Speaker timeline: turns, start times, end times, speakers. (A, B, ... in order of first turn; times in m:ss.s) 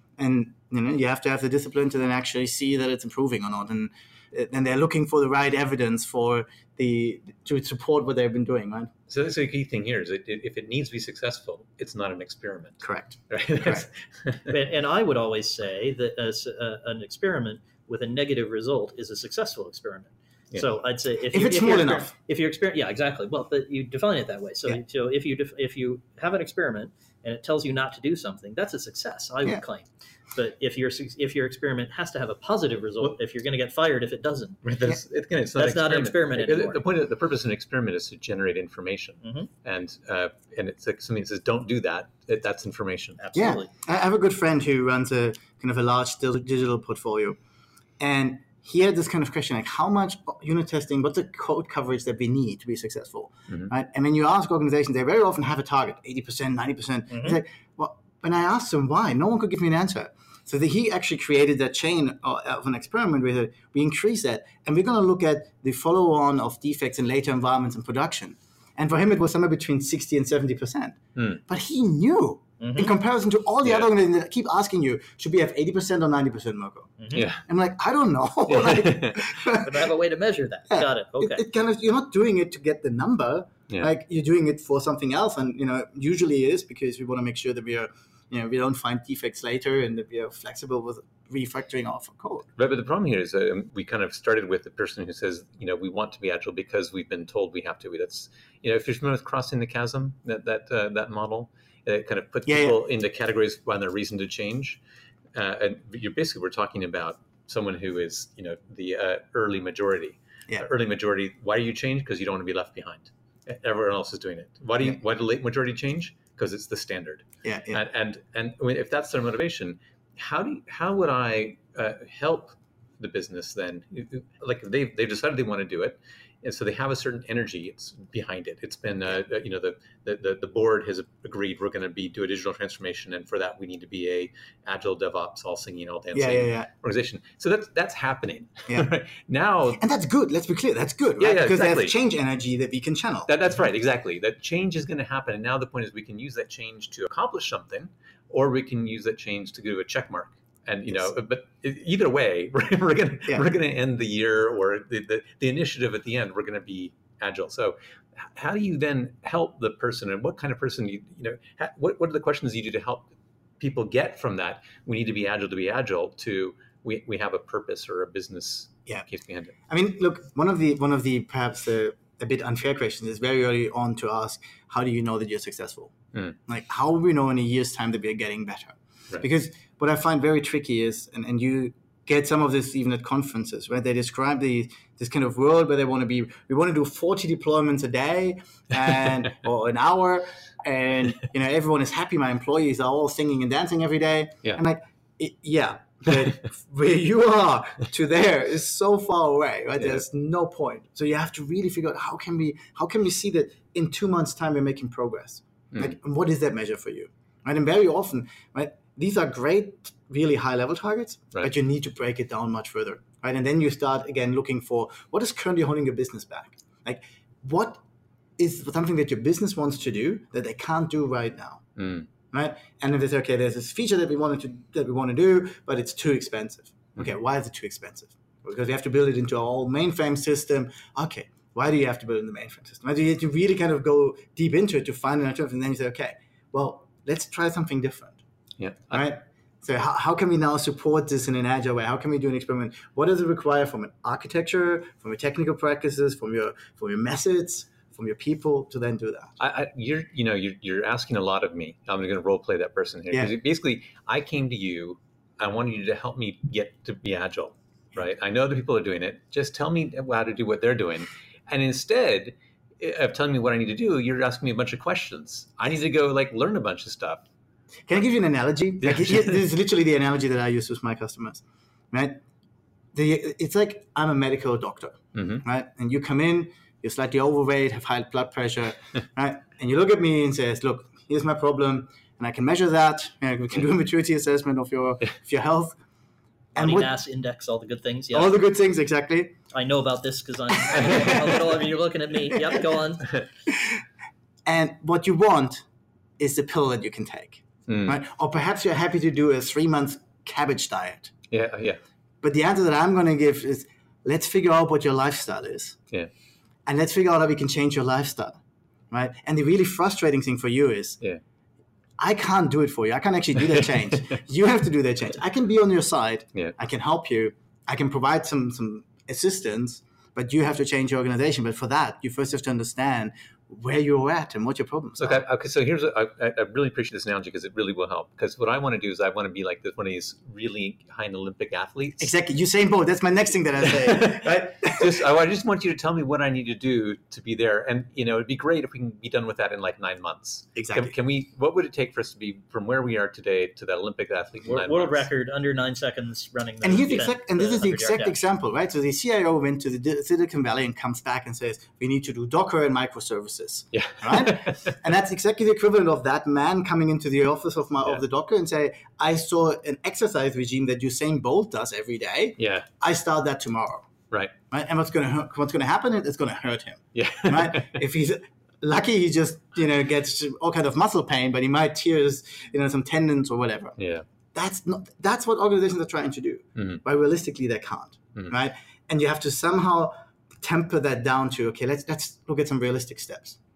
0:00.2-0:08.9 A
0:09.1-0:14.5 B
0:12.8-0:13.9 A
0:14.5-0:34.6 C
0:21.3-0:22.1 A
0:34.6-0:43.2 B
0:35.6-0:36.8 C
0:39.2-0:39.5 C
0:43.2-0:43.7 C
0:43.4-0:47.4 A
0:48.0-1:19.8 A
0:57.1-0:57.4 C
1:12.6-1:12.9 C
1:13.6-1:13.9 B
1:17.0-1:17.3 C
1:17.1-1:17.4 B
1:18.5-1:19.3 B
1:19.5-1:21.4 C
1:20.7-1:32.5 A
1:32.6-1:44.8 B
1:42.5-1:42.8 A
1:45.3-2:19.8 B
1:57.4-1:57.8 A
2:16.1-2:16.7 A
2:19.7-2:23.3 A
2:21.2-2:22.0 B
2:23.3-2:43.1 B
2:43.6-2:49.5 B
2:49.7-3:37.8 A
3:38.4-3:41.6 A
3:41.8-3:42.1 B
3:42.3-3:58.2 A
3:58.6-3:59.1 B
3:58.9-4:09.3 A
4:09.4-4:27.3 B
4:27.9-4:32.2 A
4:28.8-4:29.4 B
4:32.9-4:45.8 A
4:35.2-4:35.4 B
4:46.6-4:46.9 A
4:46.6-4:48.4 C
4:48.1-4:49.4 A
4:49.5-4:53.1 C
4:50.8-4:51.2 A
4:53.5-4:53.8 A
4:54.5-4:55.6 A
4:56.2-5:01.1 A
4:57.7-4:58.0 B
5:01.3-5:01.8 B
5:02.2-5:05.8 A
5:06.7-5:08.4 A
5:08.9-5:11.0 A
5:12.0-5:25.2 A
5:25.0-5:32.1 B
5:32.0-5:35.0 A
5:33.7-5:45.1 B
5:40.6-5:40.9 A
5:44.5-5:48.2 C
5:46.6-6:03.9 A
5:53.7-5:54.8 B
6:02.4-6:02.7 B
6:04.5-6:13.8 A
6:06.9-6:07.8 B
6:13.8-6:14.0 B
6:14.3-6:23.4 A
6:16.6-6:16.8 B